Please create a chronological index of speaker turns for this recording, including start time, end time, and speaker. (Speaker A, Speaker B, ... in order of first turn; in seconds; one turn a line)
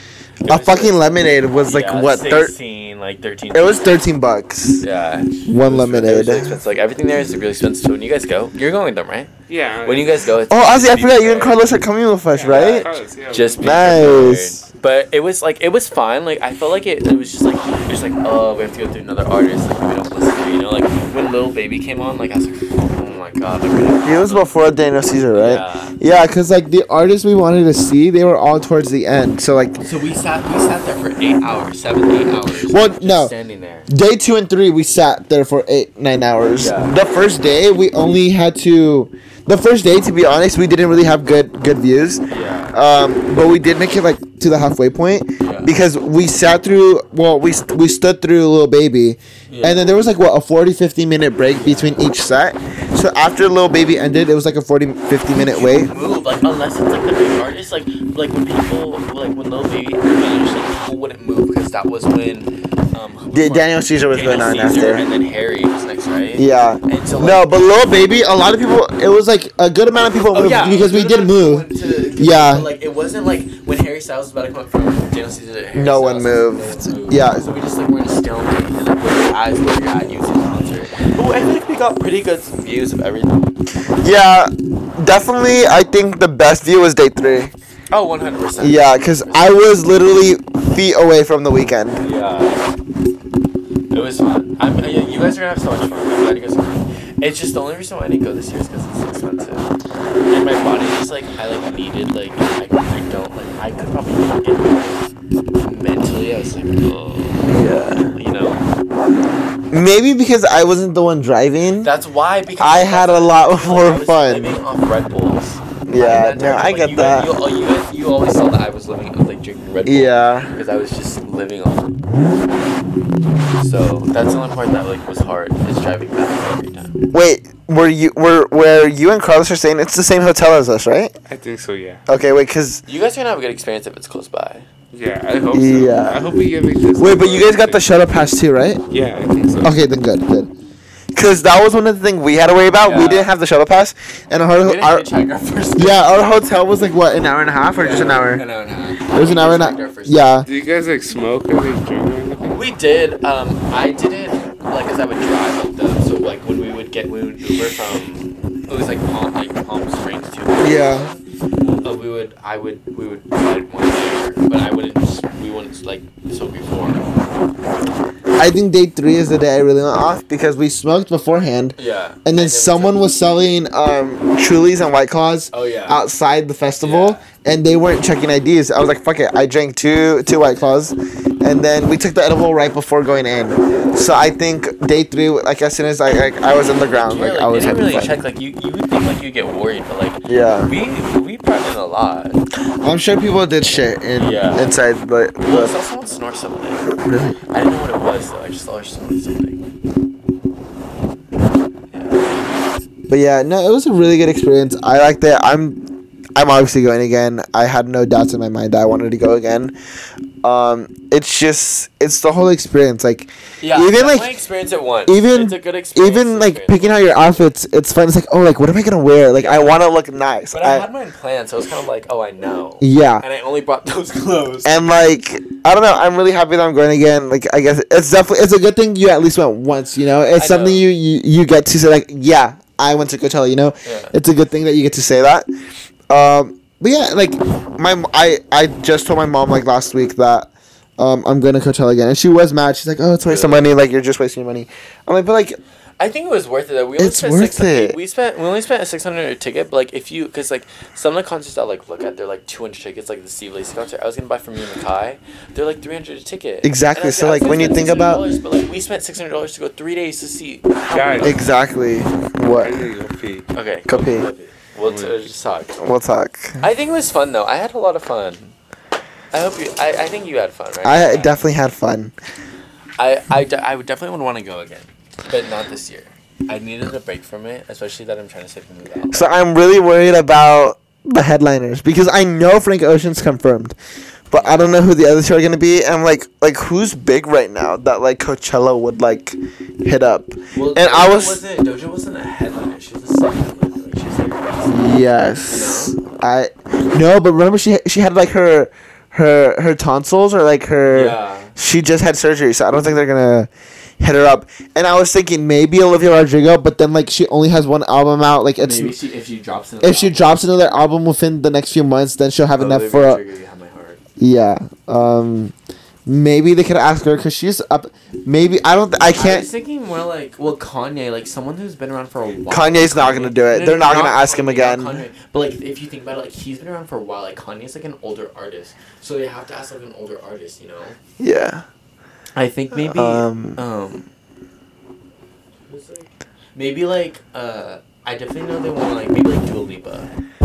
Speaker A: 0.4-4.0
Speaker B: 0.5-2.5
Speaker B: 3.5-4.8
Speaker A: 4.8-9.3
Speaker B: 5.5-6.6
Speaker C: 9.5-10.3
Speaker A: 9.8-11.7
Speaker B: 10.5-12.9
Speaker C: 12.3-14.4
Speaker A: 12.5-24.5
Speaker B: 13.6-14.5
Speaker B: 24.0-29.8
Speaker A: 25.3-26.0
Speaker A: 29.8-33.9
Speaker B: 32.6-33.3
Speaker B: 33.9-42.2
Speaker A: 36.5-36.9
Speaker A: 42.3-42.8
Speaker B: 42.7-55.9
Speaker A: 45.4-45.7
Speaker A: 49.5-49.9
Speaker A: 51.5-52.0
Speaker A: 55.3-67.5
Speaker B: 63.3-65.1
Speaker B: 66.3-72.7
Speaker A: 70.3-83.4
Speaker B: 75.8-77.5
Speaker B: 84.0-87.5
Speaker A: 87.9-89.6
Speaker B: 88.6-92.1
Speaker A: 92.0-92.6
Speaker A: 93.9-99.7
Speaker A: 100.3-105.1
Speaker A: 105.6-107.6
Speaker B: 107.5-108.1
Speaker A: 108.1-108.6
Speaker B: 109.7-111.9
Speaker A: 111.8-122.0
Speaker B: 112.6-114.6
Speaker B: 115.9-117.3
Speaker B: 119.8-120.5
Speaker A: 123.6-127.0
Speaker B: 127.1-131.1
Speaker C: 131.3-132.0
Speaker B: 132.1-132.8
Speaker A: 132.9-134.7
Speaker C: 134.9-137.9
Speaker B: 135.5-136.4
Speaker B: 137.0-138.8
Speaker C: 138.9-139.8
Speaker B: 139.6-140.5
Speaker B: 141.2-145.1
Speaker A: 142.8-143.3
Speaker A: 144.6-146.2
Speaker B: 145.8-148.4
Speaker A: 147.8-150.3
Speaker B: 149.1-150.5
Speaker C: 150.4-152.7
Speaker A: 152.5-161.2
Speaker B: 160.6-161.1
Speaker A: 161.8-167.1
Speaker B: 168.4-188.2
Speaker A: 171.8-173.0
Speaker A: 175.5-176.0
Speaker A: 176.8-177.2
Speaker A: 186.7-192.4
Speaker B: 190.3-190.7
Speaker B: 192.8-195.8
Speaker A: 194.1-194.8
Speaker A: 195.4-196.9
Speaker B: 197.0-197.4
Speaker A: 197.5-199.6
Speaker A: 201.9-202.7
Speaker B: 203.1-205.8
Speaker B: 206.3-209.7
Speaker B: 210.4-214.3
Speaker A: 213.6-217.4
Speaker B: 215.1-220.9
Speaker A: 219.4-219.8
Speaker A: 220.5-224.8
Speaker B: 222.8-223.2
Speaker B: 224.7-235.5
Speaker A: 230.4-230.8
Speaker A: 233.8-234.1
Speaker B: 236.1-245.6
Speaker A: 243.2-243.7
Speaker A: 246.0-261.5
Speaker B: 247.0-248.0
Speaker B: 256.6-258.2
Speaker C: 260.9-261.4
Speaker B: 261.2-262.8
Speaker C: 262.5-263.5
Speaker A: 263.5-265.8
Speaker B: 263.9-264.3
Speaker C: 264.8-265.2
Speaker B: 265.8-266.7
Speaker A: 266.6-268.5
Speaker A: 269.3-271.4
Speaker B: 270.8-272.1
Speaker A: 273.0-279.3
Speaker B: 279.1-283.8
Speaker B: 284.3-291.4
Speaker A: 284.3-284.8
Speaker A: 290.5-294.9
Speaker B: 294.7-303.5
Speaker A: 295.5-296.0
Speaker A: 300.9-301.5
Speaker B: 304.0-309.0
Speaker A: 308.6-310.4
Speaker B: 309.8-313.2
Speaker A: 312.6-314.0
Speaker B: 314.2-315.5
Speaker B: 316.1-319.5
Speaker A: 319.0-331.0
Speaker B: 322.5-325.1
Speaker B: 331.2-331.6
Speaker A: 332.4-334.1
Speaker B: 332.7-333.6
Speaker A: 335.6-340.1